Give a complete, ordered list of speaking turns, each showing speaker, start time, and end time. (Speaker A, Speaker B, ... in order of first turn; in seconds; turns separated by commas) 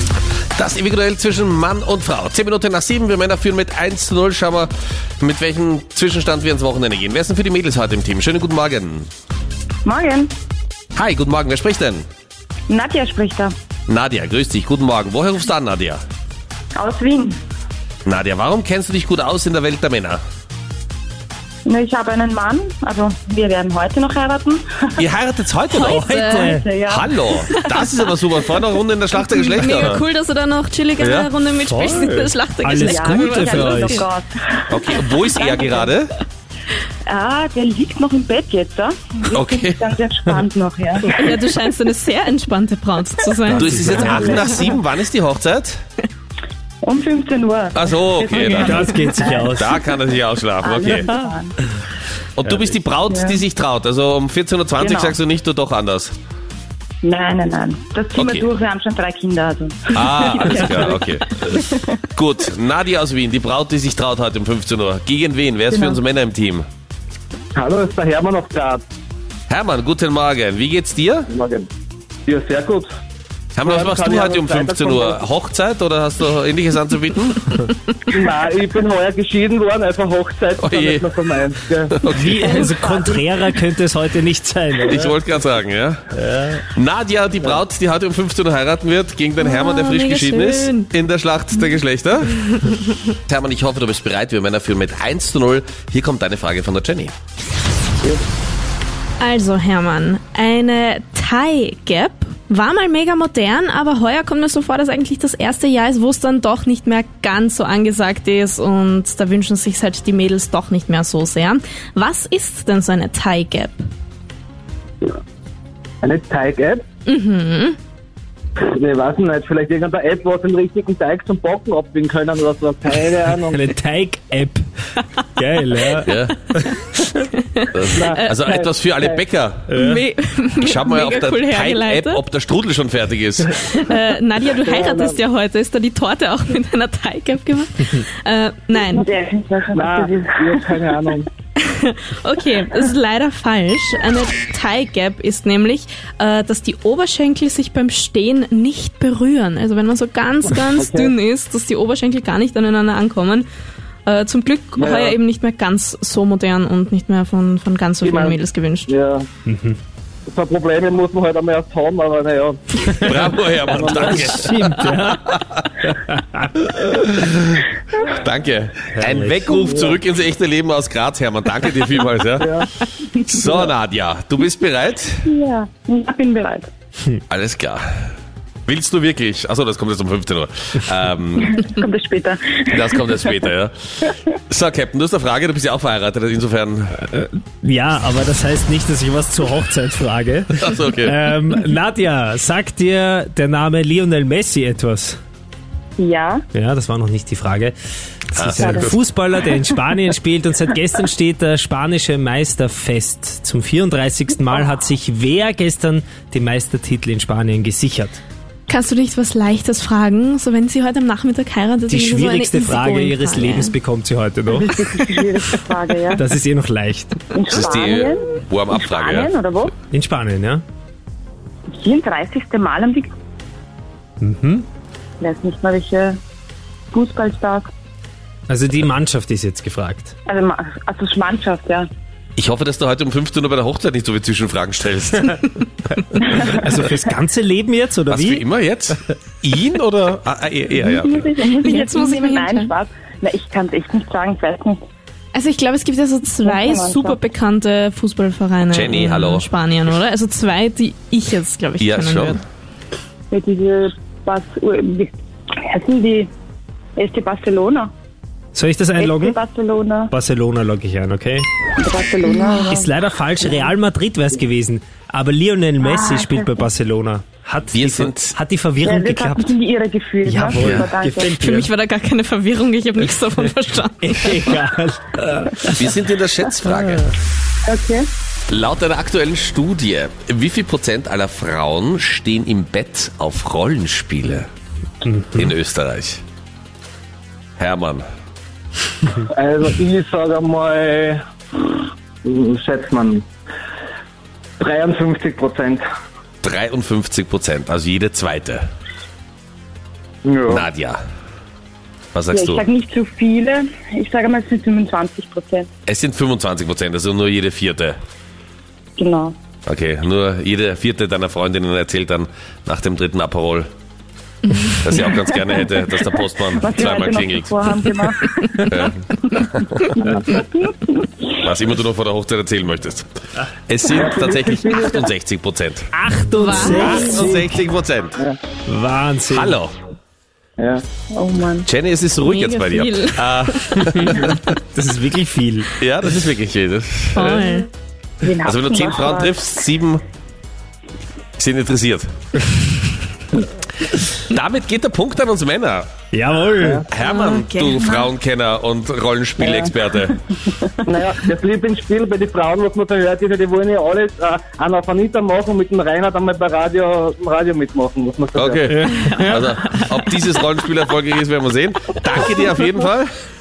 Speaker A: 0.6-4.7, Speaker A: 5.2-9.1, Speaker B: 9.8-10.3, Speaker A: 10.9-12.0, Speaker B: 12.7-13.5, Speaker A: 13.9-16.0, Speaker B: 16.8-17.4, Speaker A: 18.0-20.2, Speaker B: 21.6-25.0, Speaker A: 25.0-26.0, Speaker C: 25.7-26.6, Speaker D: 25.8-26.6, Speaker B: 26.0-27.5, Speaker A: 26.9-30.0, Speaker C: 27.5-27.8, Speaker C: 29.2-34.1, Speaker A: 31.0-31.3, Speaker D: 31.7-34.0, Speaker B: 32.8-35.9, Speaker A: 34.7-36.1, Speaker B: 37.1-41.4, Speaker A: 39.3-39.9, Speaker C: 41.1-44.8, Speaker A: 43.5-45.8, Speaker D: 43.7-44.0, Speaker B: 43.9-44.6, Speaker B: 46.8-49.8, Speaker A: 47.7-48.7, Speaker D: 48.5-49.8, Speaker C: 48.6-49.0, Speaker A: 49.5-51.1, Speaker B: 50.6-51.5, Speaker A: 52.4-56.1, Speaker B: 53.1-53.4, Speaker B: 54.8-55.2, Speaker B: 57.0-62.0, Speaker A: 58.1-58.5, Speaker A: 59.9-61.4, Speaker A: 62.1-66.7, Speaker B: 65.7-66.0, Speaker E: 67.5-68.8, Speaker A: 69.5-71.3, Speaker E: 71.3-71.7, Speaker E: 72.2-72.9, Speaker A: 73.5-77.6, Speaker E: 73.6-75.2, Speaker E: 78.0-81.9, Speaker A: 80.6-81.1, Speaker A: 81.9-82.6, Speaker D: 82.1-85.1, Speaker C: 82.2-83.4, Speaker A: 84.8-92.3, Speaker C: 89.4-90.9, Speaker C: 92.4-93.0, Speaker A: 93.3-97.1, Speaker C: 99.2-113.8, Speaker E: 116.0-116.8, Speaker C: 117.1-117.8, Speaker E: 118.6-123.6, Speaker D: 123.4-124.6, Speaker D: 125.3-126.8, Speaker A: 126.0-126.3, Speaker C: 127.2-128.4, Speaker A: 127.7-129.8, Speaker E: 127.9-129.2, Speaker D: 129.7-130.0, Speaker C: 129.7-132.2, Speaker A: 130.6-133.8, Speaker C: 133.5-139.1, Speaker E: 134.6-135.2, Speaker B: 138.9-140.7, Speaker E: 139.7-141.3, Speaker C: 141.6-153.5, Speaker E: 150.7-151.1, Speaker C: 154.1-158.9, Speaker E: 154.8-155.2, Speaker E: 158.0-159.3, Speaker D: 159.4-159.8, Speaker E: 160.3-164.4, Speaker D: 162.9-165.3, Speaker A: 163.0-165.9, Speaker D: 165.9-166.5, Speaker A: 166.6-172.6, Speaker D: 168.9-169.5, Speaker E: 169.5-170.0, Speaker E: 172.4-172.7, Speaker A: 173.1-175.3, Speaker B: 175.2-176.7, Speaker A: 177.3-177.8, Speaker A: 178.7-181.6, Speaker B: 181.4-183.3, Speaker A: 182.7-186.9, Speaker D: 187.0-195.2, Speaker A: 190.6-191.2, Speaker B: 196.0-196.4, Speaker D: 196.5-197.7, Speaker D: 198.3-208.2, Speaker A: 198.3-199.0, Speaker C: 208.7-213.7, Speaker D: 211.9-214.7, Speaker B: 214.6-216.2, Speaker D: 216.1-217.2, Speaker B: 217.3-219.7, Speaker A: 217.5-219.3, Speaker D: 219.9-220.6, Speaker B: 221.7-223.1, Speaker D: 224.2-224.7, Speaker B: 225.2-226.2, Speaker B: 226.9-227.7, Speaker D: 228.5-230.1, Speaker B: 230.2-231.9, Speaker A: 232.4-235.7, Speaker D: 236.1-238.4, Speaker A: 238.1-241.2, Speaker B: 240.8-244.8, Speaker C: 241.5-242.7, Speaker C: 245.3-252.4, Speaker B: 246.4-247.2, Speaker A: 248.7-249.5, Speaker A: 251.8-252.4, Speaker B: 253.3-256.3, Speaker B: 257.0-257.9, Speaker D: 258.5-259.4, Speaker B: 259.0-260.1, Speaker D: 260.1-261.5, Speaker B: 261.8-262.9, Speaker D: 262.7-269.6, Speaker B: 265.8-266.6, Speaker A: 267.7-268.3, Speaker B: 268.8-271.4, Speaker D: 270.2-271.7, Speaker A: 270.6-270.9, Speaker C: 271.2-274.5, Speaker D: 274.0-276.0, Speaker A: 275.8-277.1, Speaker D: 276.7-277.1, Speaker B: 277.7-278.1, Speaker A: 278.5-284.5, Speaker D: 285.0-285.5, Speaker A: 285.4-286.2, Speaker A: 287.6-288.0, Speaker E: 289.3-293.2, Speaker E: 294.6-295.8, Speaker A: 296.4-298.6, Speaker E: 300.2-300.6, Speaker A: 300.5-301.0, Speaker A: 302.1-302.6, Speaker B: 302.3-305.7, Speaker A: 305.9-308.0, Speaker B: 309.0-309.4, Speaker A: 309.6-313.7, Speaker A: 314.8-317.6, Speaker B: 315.1-321.4, Speaker A: 318.6-320.1, Speaker A: 321.4-323.1, Speaker A: 323.7-325.9, Speaker E: 323.9-325.1, Speaker D: 325.9-327.5, Speaker C: 326.4-327.3, Speaker A: 326.7-328.2, Speaker D: 328.7-329.6, Speaker A: 329.3-329.7, Speaker E: 330.6-330.8, Speaker B: 331.1-331.7, Speaker A: 331.7-334.5, Speaker C: 332.2-334.2, Speaker D: 333.9-335.7, Speaker A: 335.8-337.4, Speaker C: 337.1-337.7, Speaker B: 338.2-339.6, Speaker A: 338.4-340.0, Speaker A: 341.4-342.1, Speaker A: 344.3-345.9, Speaker D: 346.1-346.8, Speaker E: 346.6-346.9, Speaker A: 346.9-350.2, Speaker C: 347.0-348.1, Speaker E: 350.9-358.7, Speaker A: 358.4-363.1, Speaker D: 358.7-359.6, Speaker C: 358.9-360.3